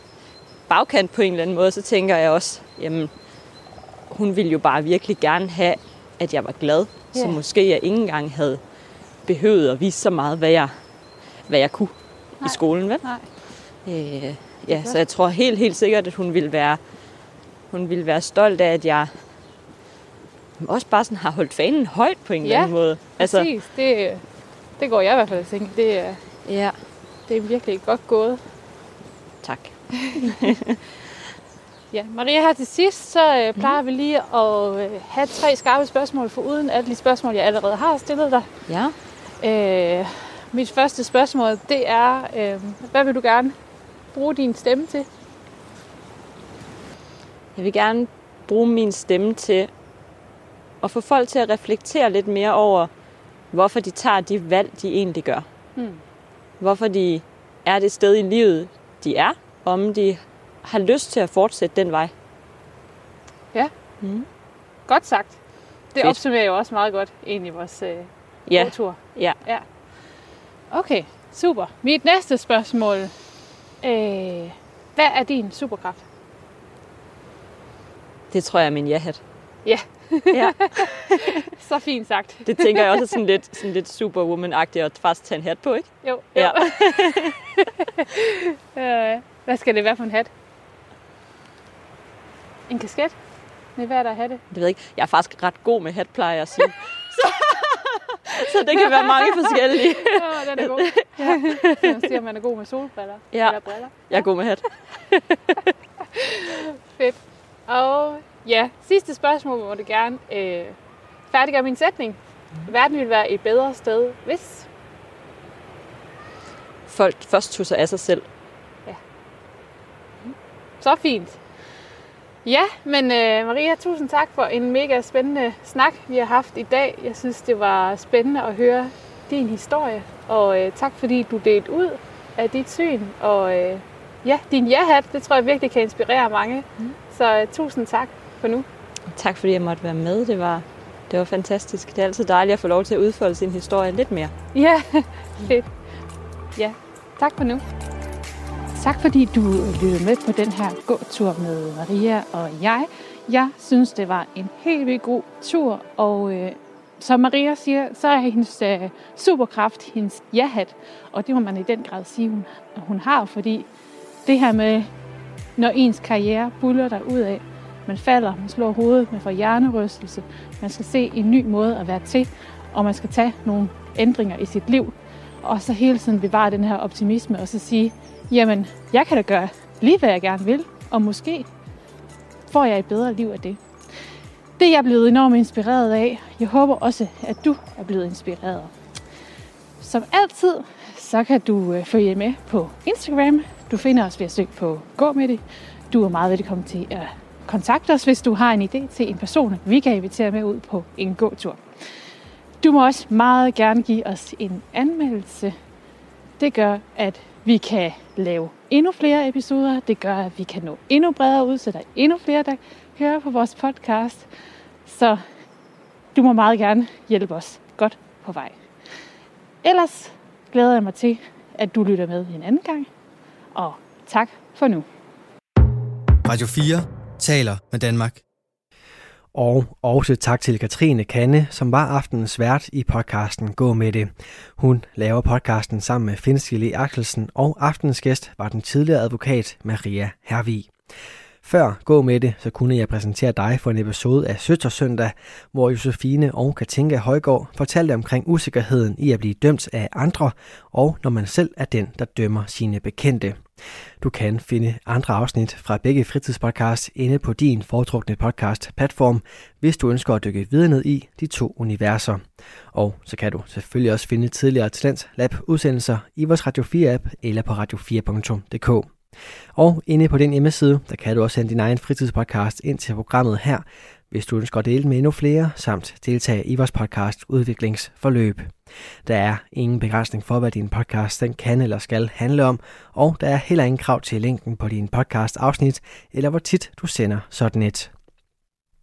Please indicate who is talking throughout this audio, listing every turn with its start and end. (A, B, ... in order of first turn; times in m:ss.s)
0:00.7-0:03.1 A
0:04.1-0:08.6 A
0:07.1-0:07.4 B
0:09.3-0:10.7 A
0:11.5-0:13.0 A
0:12.4-0:13.3 B
0:13.8-0:16.8 A
0:14.7-0:15.0 B
0:17.7-0:19.1 A
0:20.6-0:23.5 A
0:22.4-0:24.2 B
0:24.8-0:26.2 B
0:26.4-0:26.8 A
0:27.3-0:28.4 B
0:29.4-0:30.8 A
0:29.9-0:30.6 B
0:31.9-0:38.5 B
0:38.7-0:38.9 A
0:39.4-0:43.6 B
0:44.1-0:45.1 B
0:47.6-0:49.7 A
0:50.8-0:52.9 A
0:53.5-0:55.4 A
0:55.8-0:56.0 B
0:56.6-1:02.1 A
1:04.9-1:05.4 B
1:05.9-1:09.6 B
1:08.5-1:09.4 A
1:10.7-1:13.1 B
1:13.8-1:16.0 B
1:18.3-1:19.2 A
1:19.6-1:23.1 B
1:20.3-1:21.4 A
1:22.4-1:27.5 A
1:26.0-1:26.8 B
1:27.7-1:30.3 B
1:32.7-1:33.1 B
1:33.8-1:34.4 B
1:34.5-1:42.1 A
1:38.7-1:44.3 B
1:43.3-1:43.6 A
1:44.1-1:45.7 A
1:46.1-1:50.8 B
1:51.3-1:54.7 B
1:56.9-1:58.2 A
2:00.8-2:01.4 B
2:02.4-2:18.6 B
2:19.1-2:24.3 A
2:24.5-2:25.7 B
2:26.6-2:27.6 B
2:28.7-2:43.6 B
2:44.3-2:44.9 B
2:45.6-3:01.4 B
3:02.5-3:03.6 B
3:04.6-3:08.7 B
3:09.8-3:21.6 B
3:22.6-3:25.5 B
3:26.4-3:34.3 B
3:34.8-3:35.2 B
3:36.1-3:38.6 B
3:39.6-3:42.9 B
3:43.6-3:44.8 B
3:46.3-3:48.2 C
3:49.3-4:00.7 D
4:01.4-4:13.4 D
4:14.0-4:22.2 D
4:22.7-4:28.9 D
4:29.6-4:38.5 D
4:39.0-4:47.9 D